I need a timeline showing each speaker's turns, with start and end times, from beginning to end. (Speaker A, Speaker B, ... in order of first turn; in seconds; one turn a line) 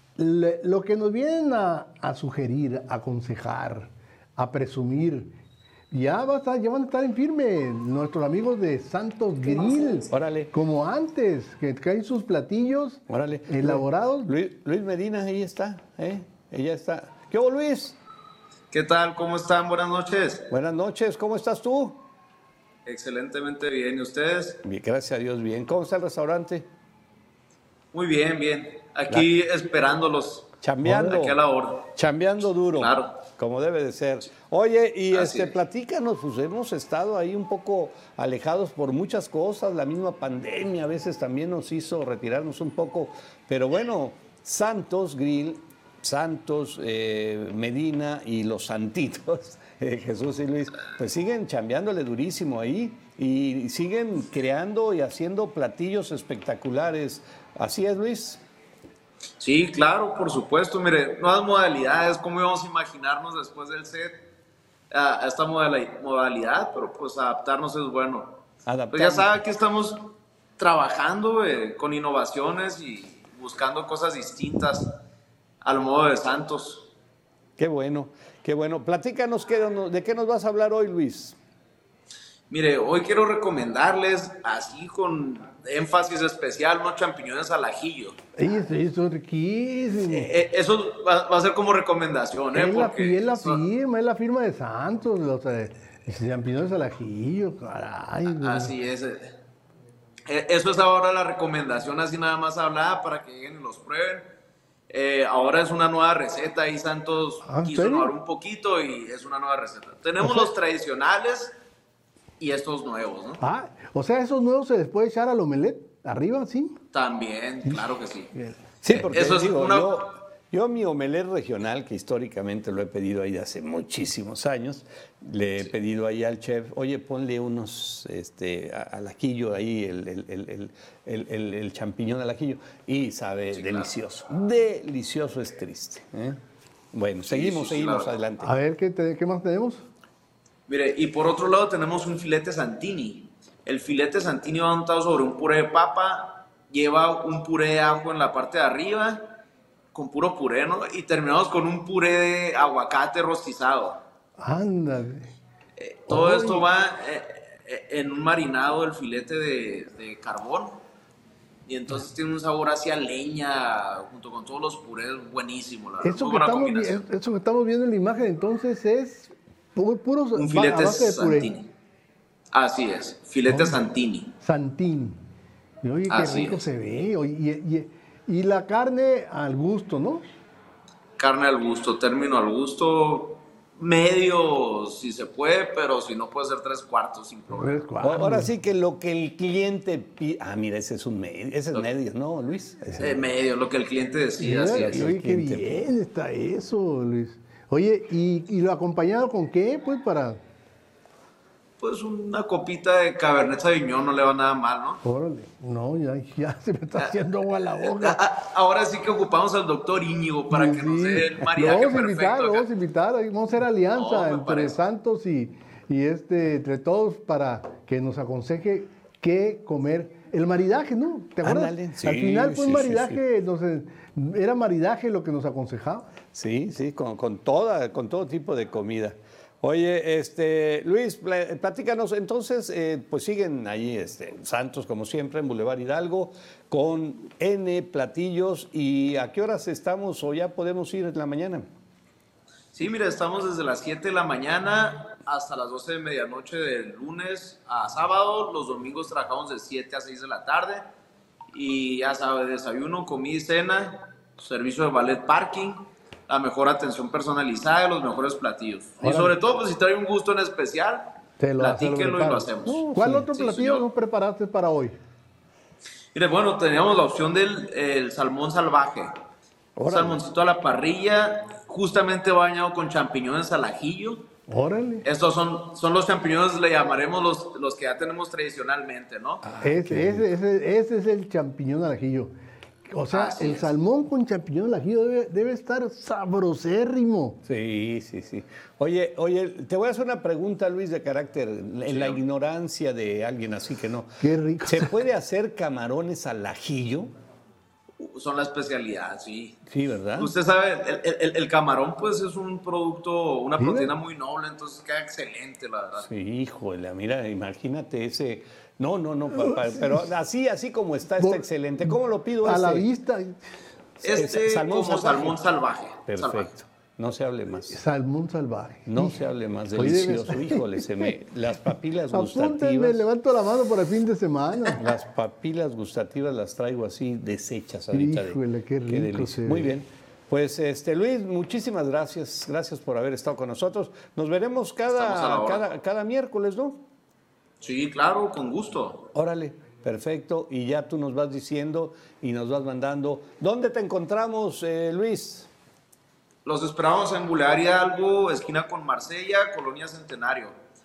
Speaker A: 0.2-5.3
Speaker A: 5.9-14.3
Speaker B: 9.6-10.1
Speaker C: 10.1-10.5
Speaker C: 13.1-18.0
Speaker B: 18.7-20.5
Speaker C: 20.5-22.0
Speaker B: 22.9-24.6
Speaker C: 24.6-26.7
Speaker B: 27.9-31.9
Speaker C: 30.6-31.4
Speaker C: 31.9-58.4
Speaker B: 32.8-33.2
Speaker B: 35.1-35.6
Speaker B: 59.4-64.2
Speaker B: 64.9-68.4
Speaker C: 68.7-69.4
Speaker B: 68.9-74.9
Speaker B: 75.6-76.9
Speaker C: 77.6-81.4
Speaker B: 82.5-88.2
Speaker A: 88.4-90.3
Speaker B: 90.0-93.6
Speaker A: 92.5-98.7
Speaker B: 98.3-99.3
Speaker B: 100.3-104.2
Speaker B: 104.9-111.6
Speaker A: 107.4-108.1
Speaker A: 110.2-110.5
Speaker B: 112.4-113.4
Speaker A: 113.4-116.8
Speaker B: 116.9-118.3
Speaker C: 118.8-136.4
Speaker B: 118.9-120.1
Speaker B: 133.6-133.9
Speaker C: 136.9-138.5
Speaker B: 137.3-138.2
Speaker A: 138.4-139.8
Speaker B: 140.7-149.3
Speaker B: 149.9-154.0
Speaker A: 154.4-155.3
Speaker B: 155.8-160.8
Speaker A: 156.1-156.7
Speaker B: 161.7-167.1
Speaker A: 166.0-171.5
Speaker B: 170.3-171.7
Speaker B: 172.5-174.3
Speaker A: 173.5-173.8
Speaker A: 174.4-175.2
Speaker A: 175.8-180.2
Speaker B: 176.1-176.6
Speaker B: 181.2-187.8
Speaker A: 187.5-188.5
Speaker C: 188.0-193.3
Speaker B: 193.0-195.0
Speaker A: 194.4-200.4
Speaker C: 194.7-195.8
Speaker B: 201.8-205.0
Speaker A: 205.0-208.2
Speaker B: 207.8-212.7
Speaker A: 210.5-226.1
Speaker B: 213.9-214.8
Speaker C: 221.4-223.2
Speaker C: 226.3-241.7
Speaker B: 242.7-250.8
Speaker B: 251.5-263.9
Speaker A: 259.0-259.4
Speaker A: 261.4-265.0
Speaker C: 262.7-263.2
Speaker B: 266.1-269.1
Speaker C: 269.8-270.2
Speaker B: 269.9-274.3
Speaker A: 274.5-275.1
Speaker B: 275.0-279.4
Speaker C: 279.4-280.3
Speaker A: 279.6-282.3
Speaker A: 282.9-287.4
Speaker B: 283.1-283.7
Speaker C: 287.4-297.1
Speaker B: 291.9-292.2
Speaker A: 294.2-295.0
Speaker B: 298.0-299.6
Speaker C: 299.7-300.3
Speaker B: 300.1-306.1
Speaker A: 303.6-303.9
Speaker C: 306.0-312.9
Speaker A: 309.4-310.1
Speaker A: 311.2-313.4
Speaker C: 314.0-315.4
Speaker B: 314.0-316.5
Speaker C: 316.1-317.8
Speaker A: 317.7-321.1
Speaker C: 318.9-323.0
Speaker A: 322.1-324.8
Speaker C: 324.8-336.8
Speaker A: 327.9-329.7
Speaker B: 334.9-335.7
Speaker B: 337.6-339.1
Speaker C: 339.1-345.5
Speaker B: 346.4-350.6